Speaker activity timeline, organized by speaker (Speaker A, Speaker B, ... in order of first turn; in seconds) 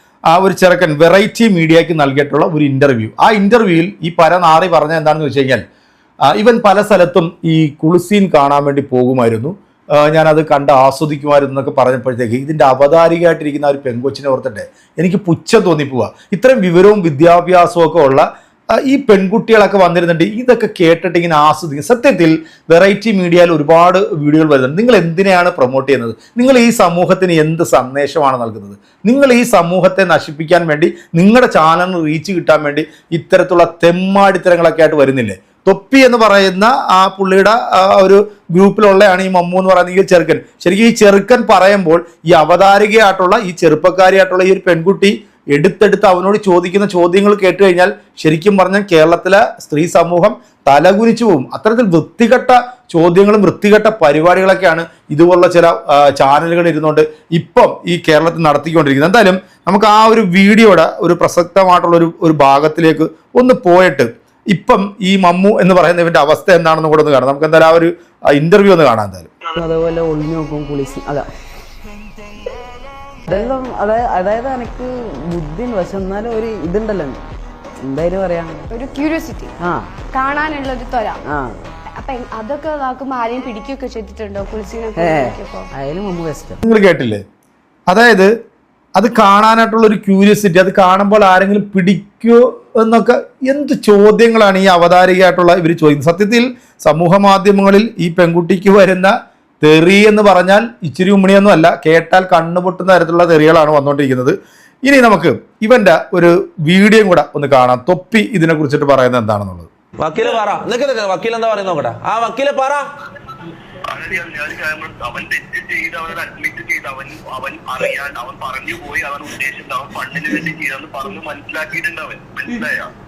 Speaker A: 0.3-5.6, 6.3-18.3, 18.8-69.3, 86.6-87.2, 87.9-88.3, 89.0-109.7
Speaker B: 69.5-71.3, 73.3-77.2, 77.8-78.7, 79.6-79.9, 81.3-81.5, 85.0-86.6
Speaker C: 78.7-79.5, 80.1-81.2, 82.0-85.7
Speaker D: 110.0-112.8
Speaker E: 113.9-122.9